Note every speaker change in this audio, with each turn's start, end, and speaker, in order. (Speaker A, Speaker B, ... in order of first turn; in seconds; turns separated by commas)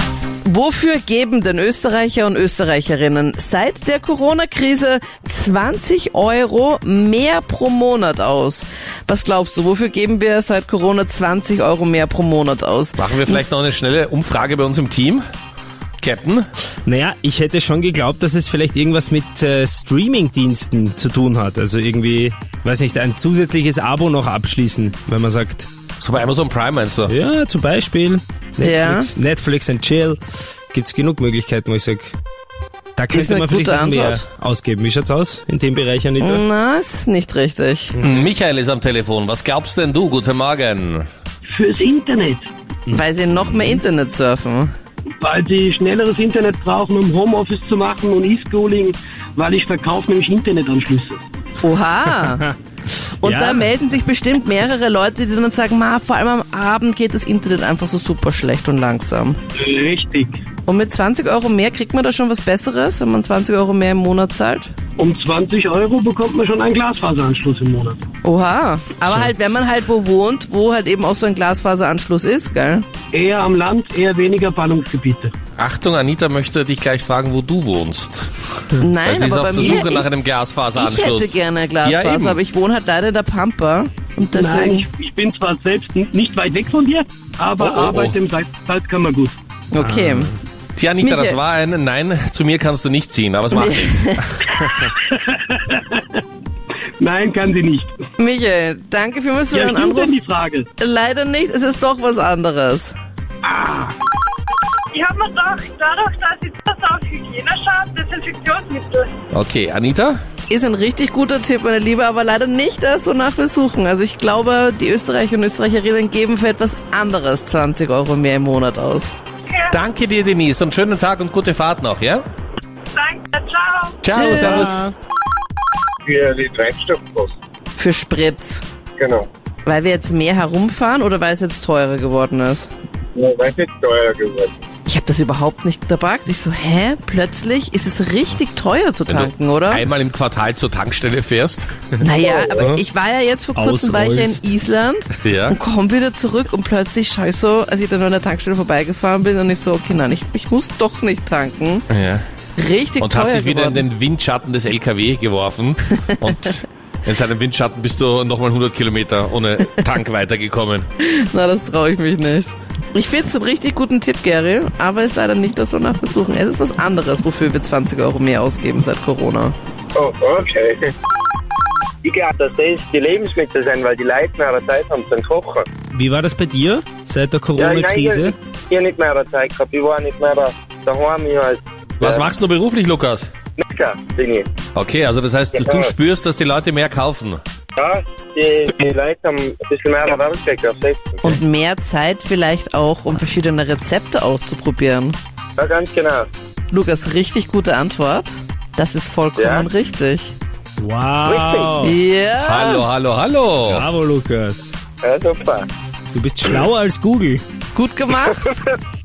Speaker A: 0.4-13.4, Speaker B: 13.0-15.2, Speaker B: 16.0-16.5, Speaker C: 16.9-25.7, Speaker B: 26.0-27.1, Speaker C: 27.1-30.2, Speaker A: 28.6-29.1, Speaker C: 30.7-32.1, Speaker C: 33.0-36.4, Speaker A: 33.1-34.2, Speaker A: 36.2-37.9, Speaker B: 38.0-41.1, Speaker D: 41.5-42.5, Speaker A: 42.9-44.7, Speaker D: 45.2-51.2, Speaker A: 51.6-52.5, Speaker C: 52.2-52.5, Speaker A: 53.2-59.4, Speaker C: 53.2-53.7, Speaker D: 59.5-60.4, Speaker A: 60.6-64.7, Speaker D: 65.0-68.0, Speaker A: 68.2-72.8, Speaker D: 73.1-75.3, Speaker B: 75.6-78.3, Speaker A: 78.8-80.1, Speaker B: 79.0-82.4, Speaker A: 80.7-84.8, Speaker D: 84.2-89.3, Speaker B: 87.6-88.2, Speaker A: 89.7-90.3, Speaker C: 89.8-90.3, Speaker B: 90.8-94.1, Speaker A: 91.0-91.4, Speaker A: 93.5-94.4, Speaker D: 94.8-96.2, Speaker D: 97.0-97.9, Speaker A: 98.2-100.1, Speaker D: 99.5-100.7, Speaker A: 100.8-102.9, Speaker D: 103.4-103.9, Speaker E: 104.9-109.1, Speaker B: 109.3-110.2, Speaker A: 110.5-119.1, Speaker E: 119.5-119.8, Speaker B: 119.7-122.2, Speaker E: 122.9-124.0, Speaker B: 124.0-124.9, Speaker A: 124.1-124.8, Speaker F: 126.0-127.3, Speaker A: 127.8-128.6, Speaker F: 129.0-129.3, Speaker A: 129.6-132.7, Speaker F: 133.1-134.6, Speaker A: 134.8-139.8, Speaker B: 139.1-141.7, Speaker A: 142.0-151.8, Speaker F: 142.3-142.7, Speaker C: 143.5-144.5, Speaker B: 145.2-145.6, Speaker B: 151.9-152.2, Speaker A: 152.6-153.8, Speaker B: 153.0-160.9, Speaker A: 161.0-169.5, Speaker F: 169.9-170.8, Speaker F: 172.0-175.7, Speaker C: 175.9-178.3, Speaker F: 177.6-182.3, Speaker B: 182.0-183.3, Speaker F: 183.6-184.5, Speaker B: 184.7-187.4, Speaker F: 185.5-185.9, Speaker F: 187.8-191.2, Speaker A: 191.2-195.2, Speaker F: 195.6-196.3, Speaker A: 196.7-200.3, Speaker F: 199.4-199.7, Speaker C: 200.8-202.0, Speaker F: 201.2-201.7, Speaker A: 201.8-202.8, Speaker B: 202.4-203.8, Speaker C: 203.7-204.7, Speaker F: 205.0-205.7, Speaker C: 206.1-207.4, Speaker A: 207.7-208.5, Speaker F: 208.4-208.7